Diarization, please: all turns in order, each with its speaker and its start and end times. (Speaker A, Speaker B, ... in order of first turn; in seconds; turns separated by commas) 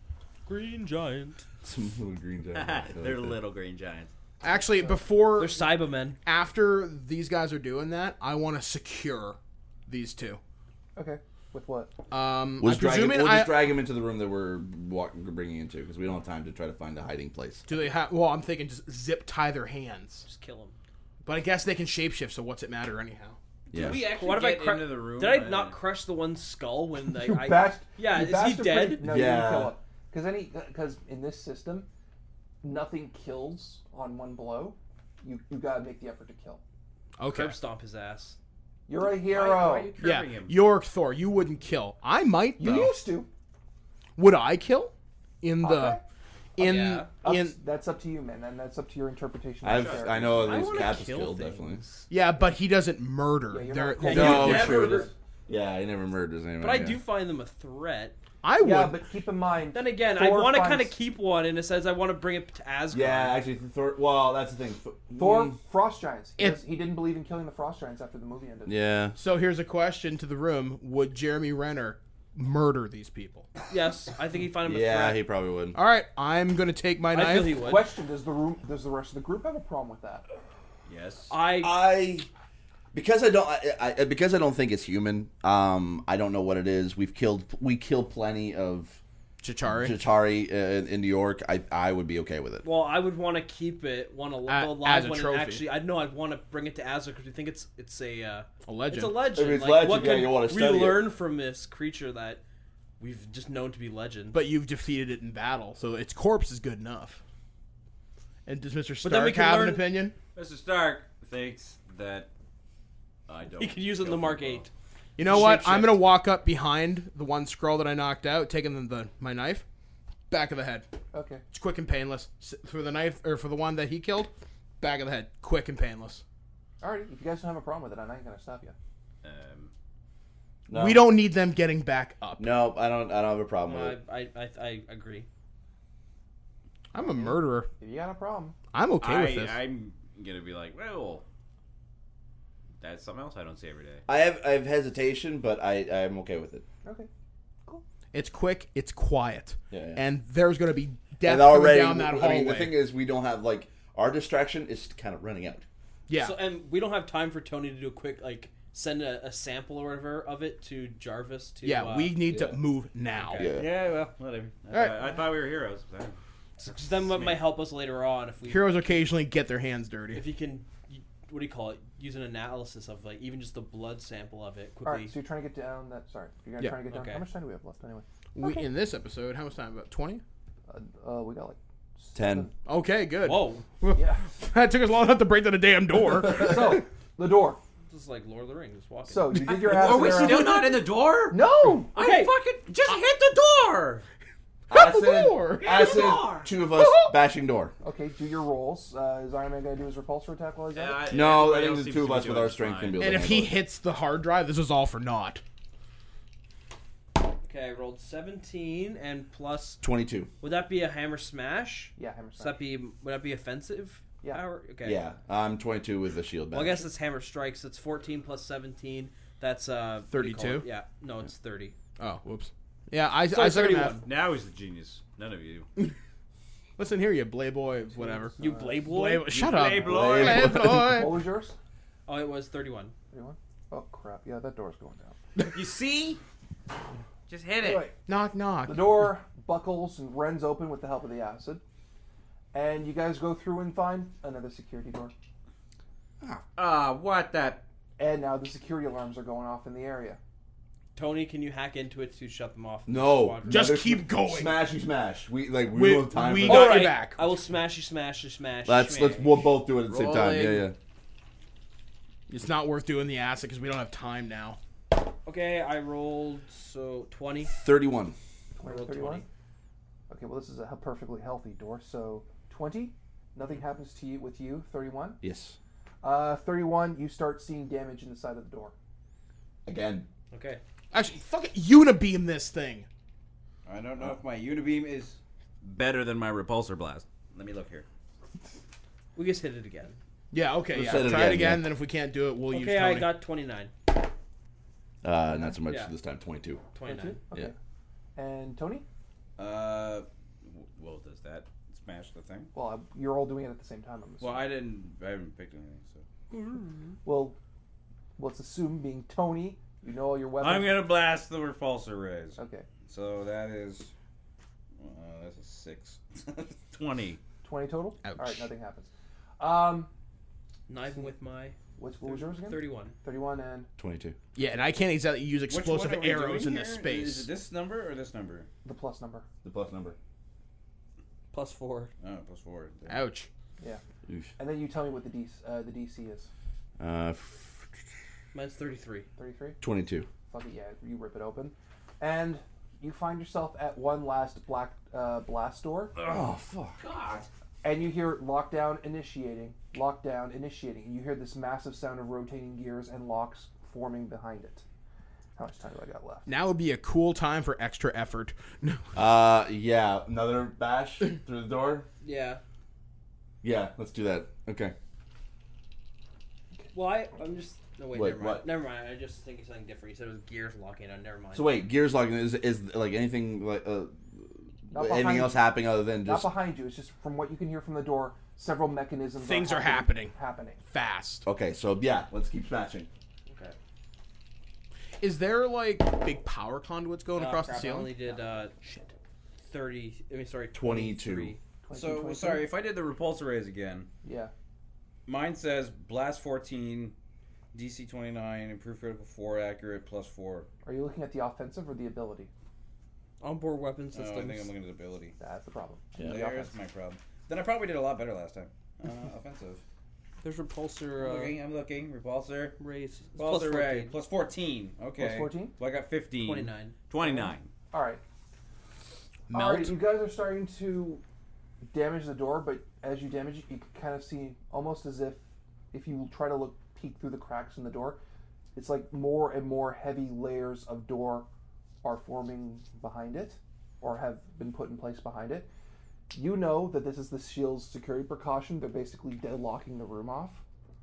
Speaker A: 0.5-1.4, Speaker B: 1.6-3.4, Speaker C: 2.5-4.1, Speaker D: 4.4-10.4, Speaker E: 4.7-5.0, Speaker A: 5.3-6.2, Speaker E: 11.0-11.9, Speaker D: 12.1-13.7, Speaker B: 12.6-17.7, Speaker D: 17.7-20.3, Speaker A: 20.2-20.8, Speaker D: 21.2-23.4, Speaker B: 23.7-24.1, Speaker C: 23.7-25.8, Speaker A: 23.9-29.1, Speaker E: 27.1-31.9, Speaker B: 29.0-29.8, Speaker E: 32.6-36.6, Speaker D: 37.2-37.6, Speaker A: 37.3-38.4, Speaker E: 38.9-39.9, Speaker C: 39.0-40.6, Speaker D: 40.0-43.0, Speaker E: 42.6-43.3, Speaker D: 44.2-46.0, Speaker E: 45.6-46.0, Speaker D: 46.6-47.6, Speaker A: 46.6-47.2, Speaker E: 47.1-50.7, Speaker B: 49.6-51.8, Speaker C: 49.7-50.8, Speaker A: 50.5-52.1, Speaker D: 52.1-54.8, Speaker E: 53.5-55.1, Speaker A: 54.0-55.1, Speaker B: 54.0-57.0, Speaker A: 56.6-58.2, Speaker D: 58.4-59.0, Speaker E: 58.6-60.9, Speaker A: 59.7-63.4, Speaker B: 62.9-65.6, Speaker E: 65.2-68.7, Speaker B: 68.7-69.2, Speaker D: 69.2-73.5, Speaker A: 73.6-75.2, Speaker B: 74.6-75.8, Speaker D: 75.7-77.7, Speaker A: 77.1-77.9, Speaker E: 77.5-80.2, Speaker C: 80.9-81.3, Speaker A: 81.3-81.8, Speaker B: 81.6-82.3, Speaker B: 82.9-89.0, Speaker D: 89.4-90.0, Speaker B: 89.7-92.7, Speaker A: 92.6-102.4, Speaker D: 94.5-95.6, Speaker D: 98.7-99.3, Speaker B: 99.3-101.1, Speaker A: 103.0-104.5, Speaker D: 104.3-107.2, Speaker D: 108.5-110.1, Speaker A: 109.0-109.9, Speaker C: 110.3-112.3, Speaker C: 113.3-114.7, Speaker A: 113.6-114.7, Speaker D: 115.2-119.7, Speaker A: 115.2-116.0, Speaker D: 120.3-120.9, Speaker E: 121.1-121.4, Speaker D: 121.5-126.2, Speaker E: 126.8-128.8, Speaker C: 129.2-129.7, Speaker B: 130.7-131.2, Speaker D: 130.7-132.5, Speaker B: 132.4-134.0, Speaker A: 133.7-135.3, Speaker D: 136.9-137.7, Speaker E: 137.0-138.6, Speaker D: 138.7-139.6, Speaker C: 139.0-141.3, Speaker C: 142.8-144.1, Speaker B: 144.1-146.7, Speaker E: 146.8-147.1, Speaker D: 148.1-152.8, Speaker B: 149.7-150.0, Speaker B: 151.2-155.7, Speaker D: 156.1-156.4, Speaker A: 156.2-162.3, Speaker D: 161.6-163.5, Speaker B: 162.3-162.6, Speaker A: 163.1-163.6, Speaker B: 163.4-163.7, Speaker C: 163.6-166.2, Speaker D: 164.7-165.2, Speaker A: 166.6-169.1, Speaker D: 168.5-170.2, Speaker A: 170.1-175.1, Speaker E: 174.8-178.7, Speaker A: 176.8-177.2, Speaker D: 178.4-180.2, Speaker E: 180.7-182.5, Speaker B: 182.1-182.5, Speaker D: 182.7-186.8, Speaker A: 183.2-183.7, Speaker E: 183.9-184.3, Speaker E: 186.3-187.6, Speaker A: 187.9-190.5, Speaker E: 189.1-192.0, Speaker C: 189.7-194.1, Speaker A: 191.9-192.3, Speaker D: 194.7-195.8, Speaker B: 194.7-197.7, Speaker C: 195.6-196.5, Speaker D: 196.7-197.1, Speaker E: 197.8-201.0, Speaker C: 200.7-203.2, Speaker B: 201.1-203.6, Speaker D: 203.0-205.4, Speaker A: 207.4-209.8, Speaker B: 209.8-210.3, Speaker A: 210.4-215.0, Speaker E: 212.0-212.6, Speaker B: 214.8-216.9, Speaker A: 216.5-221.8, Speaker D: 220.1-220.7, Speaker D: 222.0-224.0, Speaker A: 223.2-224.1, Speaker C: 224.1-225.7, Speaker D: 226.8-231.2, Speaker E: 228.0-228.8, Speaker A: 228.4-229.5, Speaker C: 229.3-230.6, Speaker B: 229.8-231.1, Speaker E: 230.7-231.6, Speaker A: 232.1-232.9, Speaker E: 233.1-235.2, Speaker C: 235.5-236.2, Speaker C: 237.3-237.9, Speaker E: 237.6-237.9, Speaker D: 238.1-239.2, Speaker E: 238.7-241.6, Speaker E: 242.5-245.1, Speaker C: 246.6-247.7, Speaker E: 248.0-250.2, Speaker A: 250.9-253.8, Speaker B: 252.9-256.9, Speaker D: 253.5-254.6, Speaker D: 255.8-257.4, Speaker A: 256.4-259.2, Speaker B: 258.6-260.8, Speaker C: 258.9-259.4, Speaker C: 259.9-260.4, Speaker D: 262.3-264.6, Speaker A: 265.2-267.5, Speaker B: 267.6-268.2, Speaker E: 268.6-269.2, Speaker A: 268.6-269.3, Speaker E: 270.1-275.2, Speaker B: 275.2-275.6, Speaker E: 276.0-278.7, Speaker B: 279.6-280.1, Speaker A: 280.3-280.6, Speaker D: 280.9-282.9, Speaker C: 283.6-287.9, Speaker A: 289.1-290.0, Speaker D: 290.3-293.1, Speaker B: 290.7-291.7, Speaker A: 292.5-293.7, Speaker B: 295.0-296.6, Speaker A: 295.6-295.9, Speaker A: 296.8-297.2, Speaker E: 296.9-297.6, Speaker E: 298.2-298.9, Speaker C: 299.4-302.5, Speaker E: 302.5-304.5, Speaker C: 304.2-306.1, Speaker A: 306.3-307.0, Speaker E: 307.0-307.4, Speaker E: 308.2-310.9, Speaker C: 310.4-313.9, Speaker E: 312.4-312.7, Speaker C: 314.8-317.2, Speaker E: 317.4-319.9, Speaker D: 318.0-318.5, Speaker A: 320.7-323.0, Speaker E: 320.8-321.1, Speaker E: 321.8-323.7, Speaker B: 323.8-324.2, Speaker D: 324.4-327.3, Speaker C: 325.5-328.5, Speaker E: 328.6-329.2, Speaker B: 329.4-330.0, Speaker A: 331.3-331.9, Speaker C: 332.0-333.1, Speaker D: 332.9-333.3, Speaker E: 334.4-336.3, Speaker B: 336.8-337.8, Speaker A: 338.3-339.1, Speaker E: 339.2-339.6, Speaker B: 339.6-340.1, Speaker E: 340.3-346.0, Speaker C: 346.0-347.3, Speaker B: 346.0-346.8, Speaker E: 347.6-354.6, Speaker E: 355.4-356.3, Speaker D: 356.3-358.9, Speaker B: 358.9-361.9, Speaker A: 362.0-362.4, Speaker B: 363.4-364.8, Speaker A: 366.7-371.6, Speaker B: 367.9-368.4, Speaker B: 371.3-376.3, Speaker E: 374.7-375.5, Speaker E: 376.1-380.6, Speaker D: 379.2-380.1, Speaker D: 380.7-381.3, Speaker B: 381.2-382.9, Speaker A: 383.3-383.6, Speaker D: 385.0-388.0, Speaker A: 387.1-388.8, Speaker A: 389.5-391.4, Speaker B: 390.5-391.3, Speaker E: 391.6-392.5, Speaker C: 391.7-393.9, Speaker E: 394.0-394.3, Speaker C: 395.1-396.9, Speaker C: 397.5-400.5, Speaker E: 400.6-402.3, Speaker A: 403.2-404.5, Speaker C: 403.9-405.2, Speaker E: 405.2-406.5, Speaker C: 406.0-409.6, Speaker A: 410.2-411.3, Speaker C: 411.0-412.6, Speaker A: 412.6-413.9, Speaker C: 413.2-417.5, Speaker E: 415.0-415.6, Speaker A: 416.2-416.8, Speaker E: 417.0-418.0, Speaker D: 419.3-419.7, Speaker E: 419.3-421.0, Speaker E: 421.7-425.2, Speaker E: 425.7-428.0, Speaker E: 428.5-431.3, Speaker E: 431.8-435.5, Speaker E: 436.1-440.4